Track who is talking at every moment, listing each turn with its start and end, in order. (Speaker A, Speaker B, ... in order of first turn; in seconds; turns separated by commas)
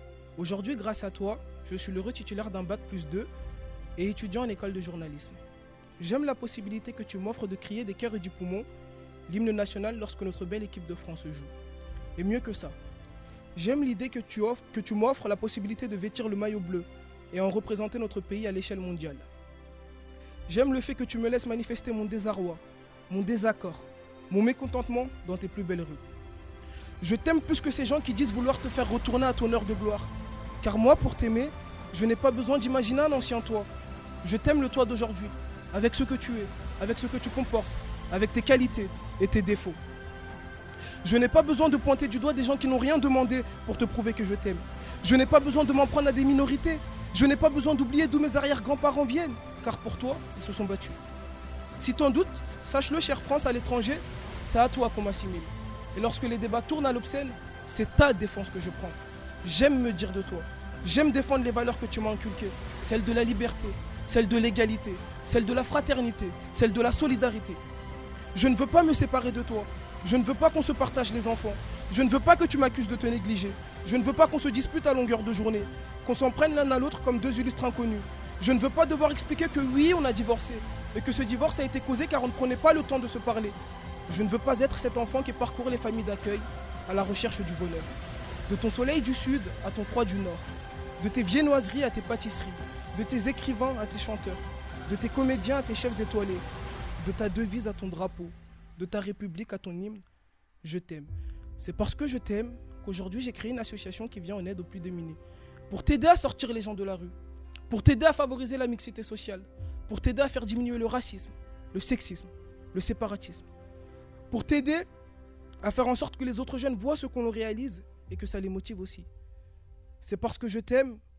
Speaker A: 0.4-3.3, Speaker A: 4.0-5.4, Speaker A: 6.0-8.7, Speaker A: 9.3-11.5, Speaker A: 12.2-12.8, Speaker A: 13.6-19.3, Speaker A: 20.5-26.0, Speaker A: 27.0-33.7, Speaker A: 34.2-39.8, Speaker A: 41.0-51.0, Speaker A: 51.8-67.6, Speaker A: 68.3-83.6, Speaker A: 84.1-87.9, Speaker A: 88.5-96.5, Speaker A: 97.0-100.0, Speaker A: 100.6-105.2, Speaker A: 105.7-107.1, Speaker A: 107.7-113.5, Speaker A: 114.3-114.9, Speaker A: 115.6-119.1, Speaker A: 120.0-121.0